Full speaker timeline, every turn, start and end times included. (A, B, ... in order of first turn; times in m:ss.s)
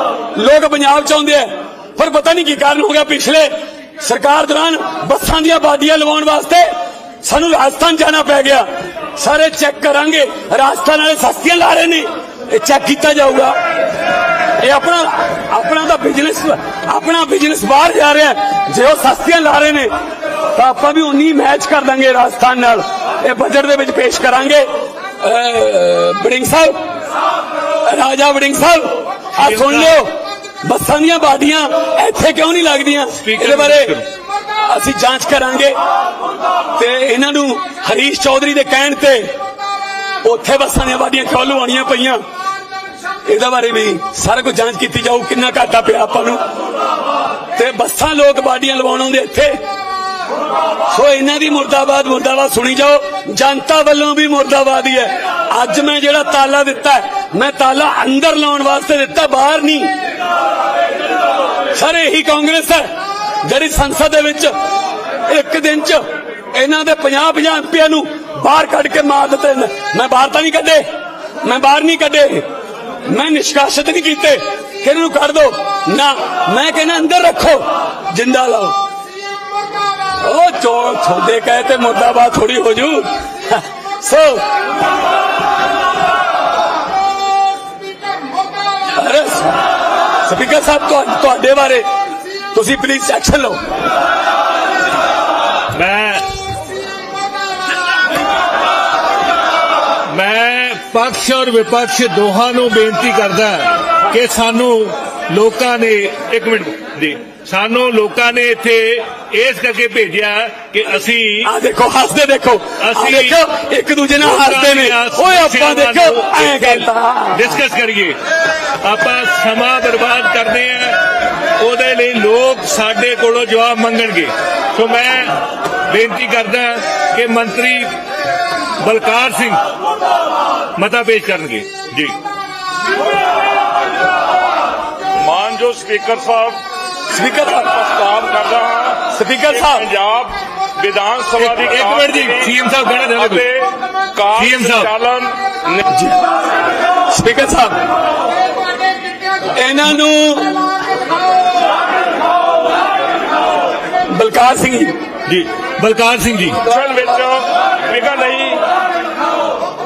0:00.4-0:06.7 A
0:07.2-0:13.6 A
0:14.6-0:19.9 A
0:20.5-0:24.7 A
0:25.2-0:26.8 A
0:27.8-0:34.0 A
0:29.4-0:30.0 B
0:33.2-0:34.1 B
0:34.7-0:35.8 A
0:36.8-0:39.3 A
0:40.2-0:42.2 A
0:43.3-0:46.4 A
0:47.6-0:49.6 A
0:50.9-0:59.9 A
1:01.8-1:02.9 A
1:03.4-1:04.5 A
1:05.3-1:10.9 A
1:11.4-1:12.5 A
1:13.1-1:18.8 A
1:20.2-1:24.5 A
1:29.0-1:29.6 A
1:30.2-1:31.9 A
1:32.5-1:33.6 A
1:35.7-1:36.3 B
1:40.1-1:51.5 B
1:51.4-1:57.6 A
1:52.8-1:53.4 B
1:54.2-1:58.2 B
1:58.8-2:01.1 B
2:01.6-2:08.0 B
2:08.8-2:09.6 B
2:10.8-2:12.2 B
2:15.2-2:16.6 C
2:17.1-2:17.7 A
2:17.4-2:22.5 C
2:19.1-2:19.8 A
2:21.4-2:23.5 B
2:23.2-2:25.9 C
2:24.4-2:24.9 B
2:25.9-2:26.2 A
2:27.1-2:27.8 A
2:29.6-2:30.7 A
2:34.1-2:35.0 A
2:35.3-2:36.6 B
2:36.6-2:38.7 C